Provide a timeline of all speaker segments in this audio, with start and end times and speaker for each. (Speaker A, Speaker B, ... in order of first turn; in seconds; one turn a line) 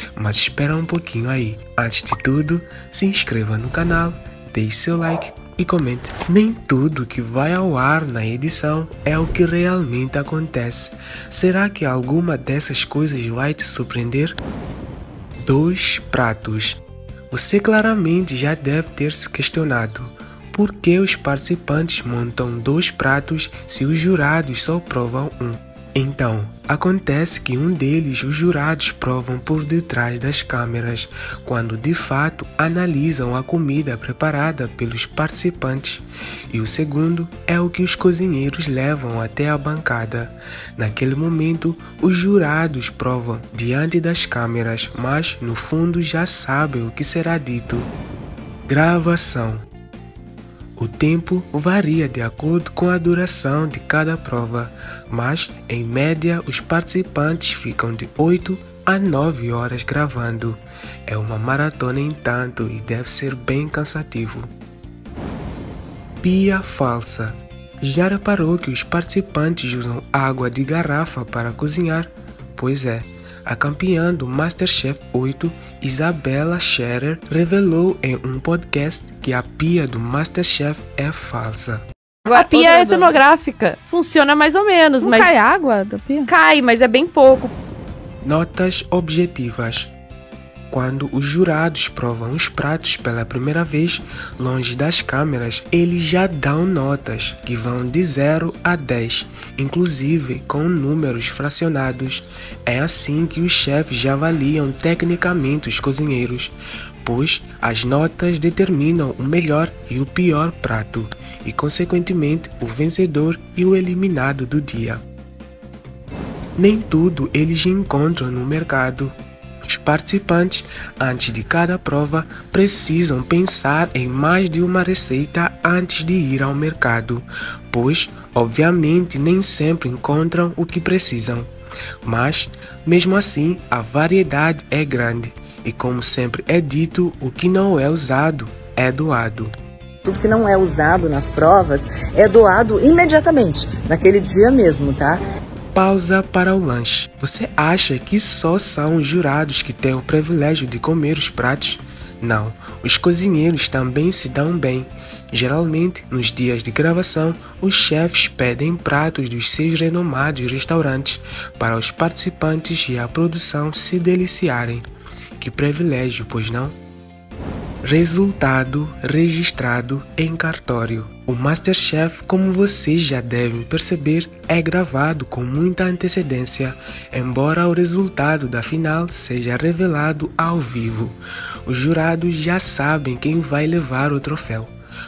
Speaker A: 0.1-14.4
Speaker A: 15.4-47.9
Speaker A: 48.7-49.6
Speaker A: 50.8-64.5
Speaker A: 66.2-81.8
Speaker B: 82.2-83.1
Speaker C: 82.3-85.3
Speaker B: 85.0-86.3
Speaker C: 86.3-87.5
Speaker A: 88.2-89.9
Speaker A: 90.7-115.0
Speaker A: 116.6-119.2
Speaker A: 119.7-131.5
Speaker A: 132.0-139.5
Speaker D: 140.0-145.2
Speaker A: 145.7-164.8
Speaker A: 165.4-166.8
Speaker A: 167.8-184.7